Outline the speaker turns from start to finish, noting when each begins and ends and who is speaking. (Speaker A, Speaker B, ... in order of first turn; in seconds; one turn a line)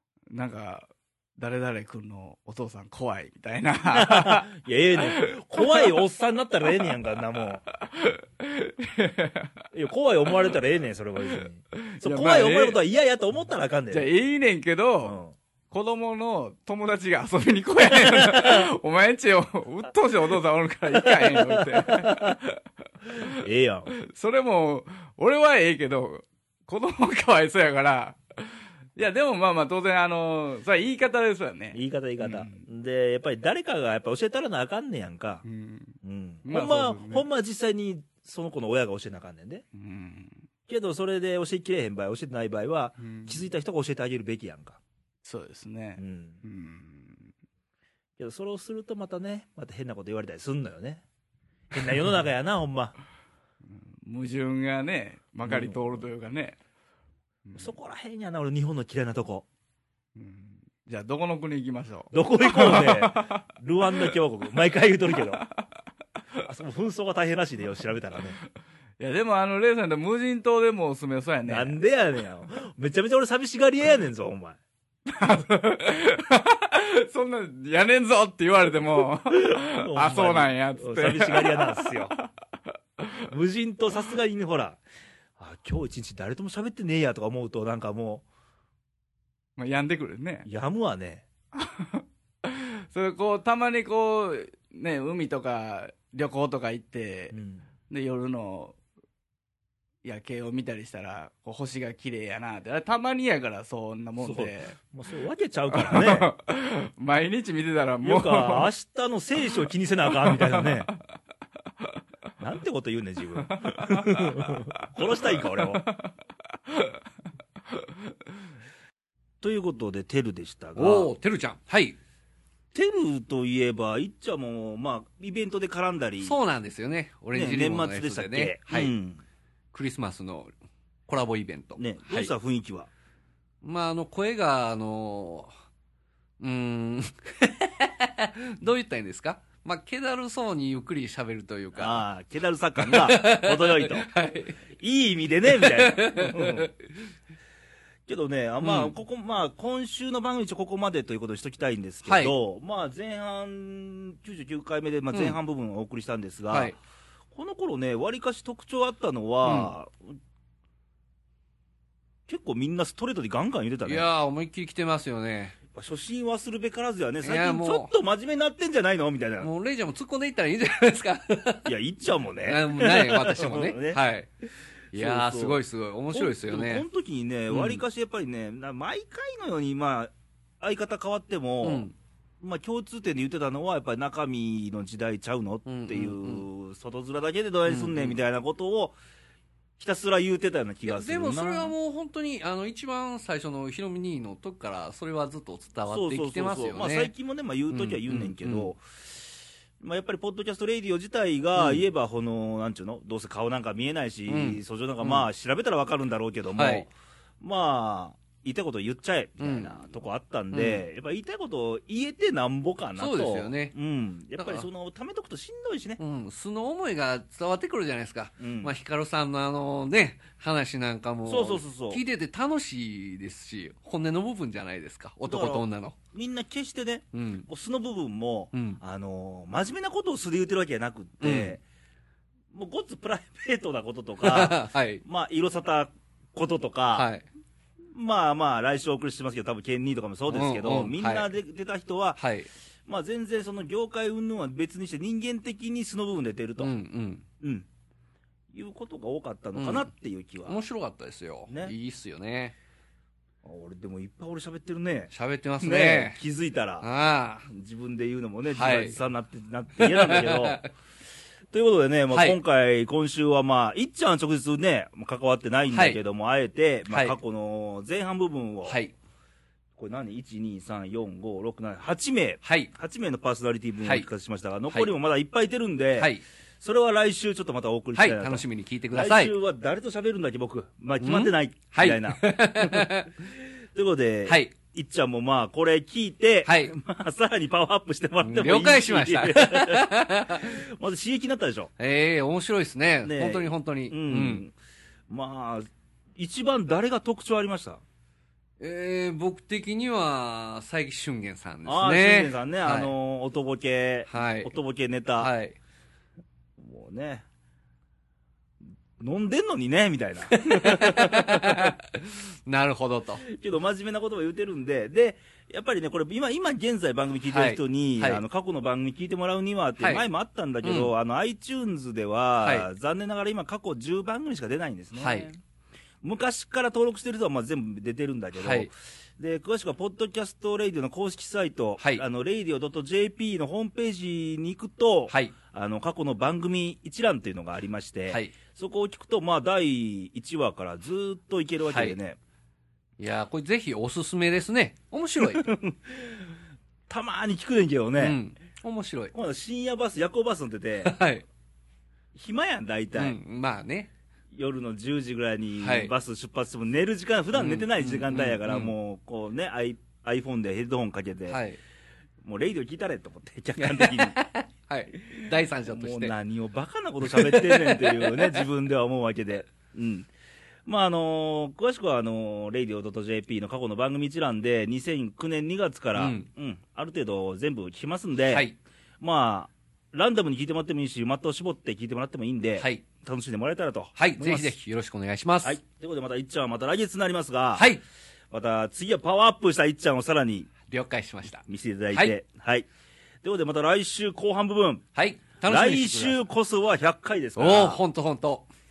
Speaker A: 0.3-4.5
Speaker B: 3.9-7.6
Speaker A: 5.1-5.9
Speaker A: 7.9-9.5
Speaker B: 9.7-14.1
Speaker A: 11.9-12.8
Speaker A: 13.9-15.2
Speaker B: 15.0-15.3
Speaker A: 15.7-22.5
Speaker B: 18.1-18.6
Speaker B: 21.3-22.4
Speaker B: 23.4-23.9
Speaker A: 24.0-32.6
Speaker B: 31.7-35.4
Speaker A: 35.4-37.3
Speaker B: 36.0-39.6
Speaker A: 39.7-40.4
Speaker B: 40.7-44.8
Speaker A: 43.0-43.4
Speaker A: 45.2-47.3
Speaker B: 46.0-46.4
Speaker B: 48.2-51.0
Speaker B: 51.7-52.9
Speaker A: 53.7-56.6
Speaker B: 55.4-56.0
Speaker A: 57.5-57.7
Speaker B: 57.6-59.4
Speaker A: 60.1-64.1
Speaker B: 62.1-65.5
Speaker A: 65.1-65.4
Speaker B: 66.4-68.4
Speaker A: 69.0-71.8
Speaker B: 71.5-74.6
Speaker A: 75.1-82.3
Speaker B: 79.3-82.1
Speaker B: 83.2-84.8
Speaker B: 85.4-88.2
Speaker A: 89.6-90.5
Speaker B: 90.5-91.2
Speaker A: 91.5-97.4
Speaker B: 97.3-97.6
Speaker A: 97.9-98.8
Speaker A: 100.0-104.8
Speaker B: 104.2-106.3
Speaker A: 105.7-108.7
Speaker B: 108.0-110.9
Speaker A: 110.2-110.9
Speaker B: 112.4-115.9
Speaker A: 113.4-116.1
Speaker A: 116.7-117.0
Speaker B: 119.4-121.1
Speaker C: 120.8-122.0
Speaker B: 122.7-126.3
Speaker C: 126.2-128.9
Speaker B: 127.3-129.2
Speaker C: 129.7-130.5
Speaker C: 131.1-132.3
Speaker B: 131.8-132.9
Speaker C: 133.6-135.5
Speaker C: 136.4-142.1
Speaker B: 141.8-144.1
Speaker C: 142.8-144.6
Speaker B: 144.8-146.7
Speaker C: 145.6-146.7
Speaker B: 148.1-156.7
Speaker C: 148.6-148.9
Speaker C: 152.1-152.3
Speaker C: 155.1-155.4
Speaker C: 156.5-156.8
Speaker B: 157.3-160.0
Speaker C: 159.4-159.7
Speaker B: 162.3-164.1
Speaker C: 163.9-165.6
Speaker B: 165.7-169.5
Speaker C: 167.2-167.9
Speaker C: 169.4-171.7
Speaker B: 171.7-174.0
Speaker C: 172.4-174.3
Speaker C: 174.9-176.9
Speaker B: 174.9-181.9
Speaker C: 177.5-177.8
Speaker C: 181.6-181.9
Speaker B: 182.4-188.9
Speaker C: 185.7-186.4
Speaker C: 187.7-188.2
Speaker B: 189.8-191.7
Speaker C: 190.9-197.1
Speaker B: 195.9-199.1
Speaker C: 197.7-198.7
Speaker B: 199.8-206.9
Speaker C: 201.6-201.8
Speaker C: 204.3-205.3
Speaker C: 206.6-206.9
Speaker B: 207.4-216.0
Speaker C: 209.4-209.8
Speaker C: 210.5-210.9
Speaker C: 213.0-213.8
Speaker C: 214.4-214.7
Speaker C: 216.0-225.9
Speaker B: 218.4-218.7
Speaker B: 221.3-222.0
Speaker B: 225.2-231.6
Speaker C: 227.1-227.5
Speaker C: 228.5-228.8
Speaker C: 231.2-231.6
Speaker B: 232.5-237.1
Speaker C: 234.2-235.0
Speaker C: 236.9-237.3
Speaker B: 237.9-242.2
Speaker C: 240.3-241.3
Speaker C: 242.2-242.5
Speaker B: 242.9-246.7
Speaker C: 246.6-247.2
Speaker B: 247.4-247.7
Speaker B: 248.5-250.6
Speaker C: 249.6-249.9
Speaker C: 250.4-252.5
Speaker B: 251.5-251.7
Speaker B: 253.4-256.9
Speaker C: 255.1-256.2
Speaker C: 256.8-257.5
Speaker B: 257.4-260.6
Speaker C: 258.5-259.0
Speaker C: 259.8-260.7
Speaker B: 261.5-268.8
Speaker C: 262.1-262.4
Speaker C: 265.7-266.0
Speaker C: 266.9-267.1
Speaker C: 268.7-268.9
Speaker B: 269.8-282.9
Speaker C: 272.4-272.7
Speaker C: 278.0-279.3
Speaker C: 281.0-283.1
Speaker B: 283.7-289.9
Speaker C: 284.3-284.5
Speaker C: 286.4-286.7
Speaker C: 288.2-290.5
Speaker B: 290.4-291.7
Speaker C: 291.8-294.4
Speaker B: 293.0-294.5
Speaker B: 295.1-297.8
Speaker C: 298.6-302.9
Speaker B: 301.7-305.3
Speaker C: 304.1-304.5
Speaker C: 305.2-305.6
Speaker B: 306.6-307.2
Speaker B: 309.0-311.7
Speaker C: 310.3-313.2
Speaker B: 313.3-325.3
Speaker C: 317.3-318.2
Speaker C: 319.8-320.1
Speaker C: 320.6-320.9
Speaker C: 324.9-325.4
Speaker B: 326.0-342.2
Speaker C: 328.4-328.7
Speaker C: 331.8-332.0
Speaker C: 341.7-342.0
Speaker C: 343.0-345.5
Speaker B: 345.4-346.1
Speaker B: 346.9-348.2
Speaker C: 348.0-349.1
Speaker B: 349.1-350.9
Speaker C: 350.8-351.2
Speaker B: 352.1-353.2
Speaker C: 352.9-353.9
Speaker B: 354.3-361.4
Speaker C: 355.6-355.9
Speaker C: 357.3-358.7
Speaker C: 361.3-361.6
Speaker B: 362.2-364.1
Speaker C: 363.6-366.1
Speaker B: 365.7-370.1
Speaker C: 367.1-368.5
Speaker B: 370.7-378.4
Speaker C: 375.9-376.3
Speaker B: 379.0-384.5
Speaker C: 382.6-382.8
Speaker C: 384.0-385.6
Speaker B: 385.4-387.7
Speaker B: 388.3-390.5
Speaker C: 390.7-392.1
Speaker B: 391.5-392.7
Speaker B: 393.2-394.8
Speaker C: 394.9-396.2
Speaker B: 395.5-397.8
Speaker C: 397.4-398.5